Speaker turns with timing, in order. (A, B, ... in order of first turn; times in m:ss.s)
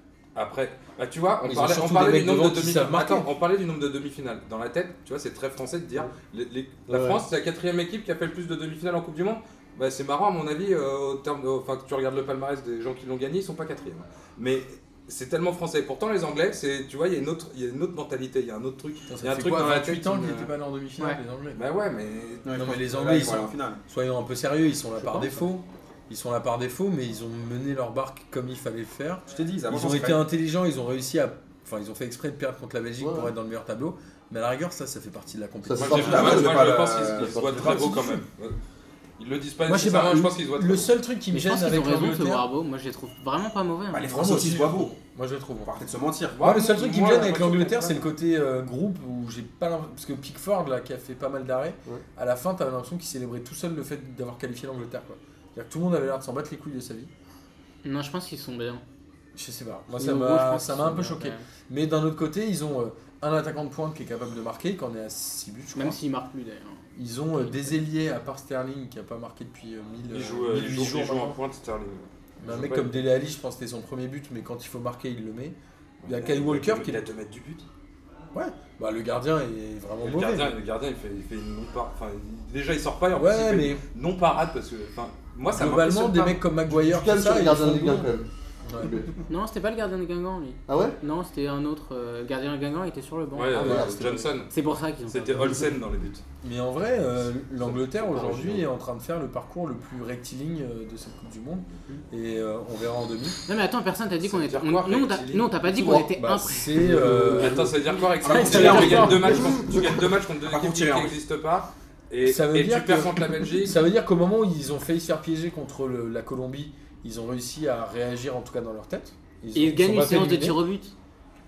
0:00.4-0:20.5 A
0:01.4-0:03.3 B
0:06.9-0:07.2 C
0:19.1-0:21.6 B
0:21.6-0:22.5 A
0:22.4-0:23.8 D
0:22.6-0:36.7 B
0:25.0-0:25.4 A
0:29.3-0:30.3 D
0:33.0-0:33.3 C
0:35.6-0:36.8 C
0:35.8-0:38.6 A
0:35.9-0:38.0 D
0:37.2-0:38.2 B
0:37.4-0:37.8 C
0:39.2-0:40.9 A
0:39.7-0:42.4 B
0:41.3-0:44.1 E
0:43.9-0:45.0 D
0:44.1-0:45.7 B
0:45.6-0:46.5 D
0:46.4-0:48.0 A
0:46.4-0:57.1 B
0:57.8-0:58.8 E
0:59.4-1:06.0 B
1:00.0-1:01.5 E
1:05.8-1:07.8 E
1:07.0-1:11.4 B
1:10.1-1:13.0 A
1:12.4-1:17.0 B
1:16.0-1:17.7 A
1:18.3-1:20.6 B
1:20.0-1:26.4 A
1:23.1-1:23.8 B
1:25.5-1:28.1 B
1:26.7-1:28.3 C
1:28.6-1:29.0 B
1:28.8-1:29.1 C
1:29.3-1:35.6 E
1:30.7-1:31.0 C
1:33.3-1:34.5 A
1:33.5-1:34.3 B
1:33.6-1:34.2 C
1:35.1-1:36.2 A
1:36.4-1:43.4 B
1:38.0-1:38.7 C
1:43.5-1:46.8 E
1:44.2-1:45.5 A
1:45.7-1:47.7 B
1:46.8-1:47.6 C
1:47.1-1:53.8 A
1:48.2-1:51.2 D
1:48.3-1:49.5 B
1:52.2-2:00.6 B
1:59.6-2:00.9 E